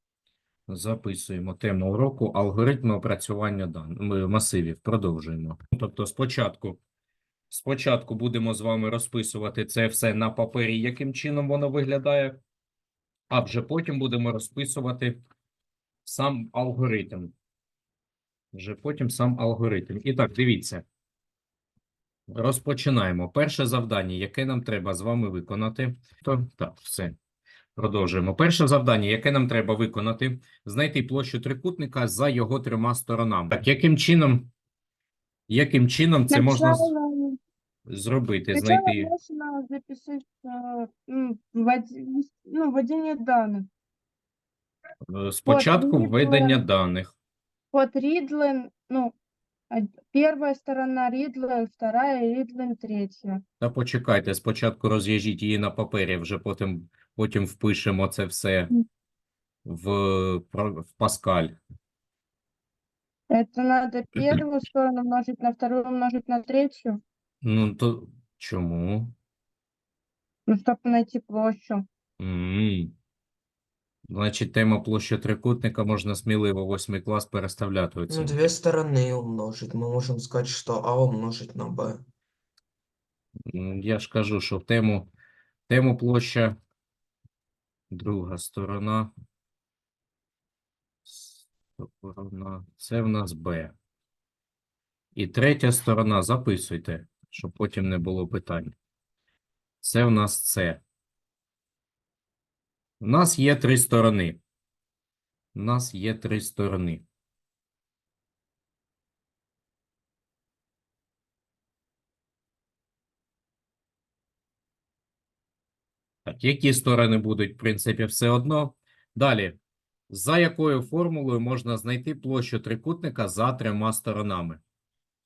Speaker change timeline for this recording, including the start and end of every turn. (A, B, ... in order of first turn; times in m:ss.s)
0:00.7-0:06.8 A
0:07.5-0:12.4 A
0:13.3-0:15.2 A
0:16.0-0:17.3 A
0:18.5-0:20.8 A
0:22.3-0:27.2 A
0:27.8-0:34.5 A
0:35.5-0:36.9 A
0:36.3-0:37.4 B
0:37.9-0:39.1 A
0:38.5-0:43.7 B
0:45.1-0:47.1 A
0:45.5-0:46.6 B
0:47.7-0:49.2 B
0:49.7-0:53.4 B
0:53.6-0:58.7 A
0:59.6-1:01.6 A
1:03.3-1:07.0 B
1:07.4-1:09.1 A
1:10.5-1:11.8 B
1:12.2-1:12.9 A
1:14.1-1:18.5 A
1:18.1-1:22.0 C
1:23.5-1:25.1 A
1:25.7-1:26.6 A
1:27.9-1:29.1 A
1:31.1-1:33.8 A
1:35.2-1:38.7 A
1:39.8-1:40.8 A
1:43.0-1:44.4 A
1:45.6-1:47.0 A
1:56.3-1:59.6 A
2:00.1-2:04.6 A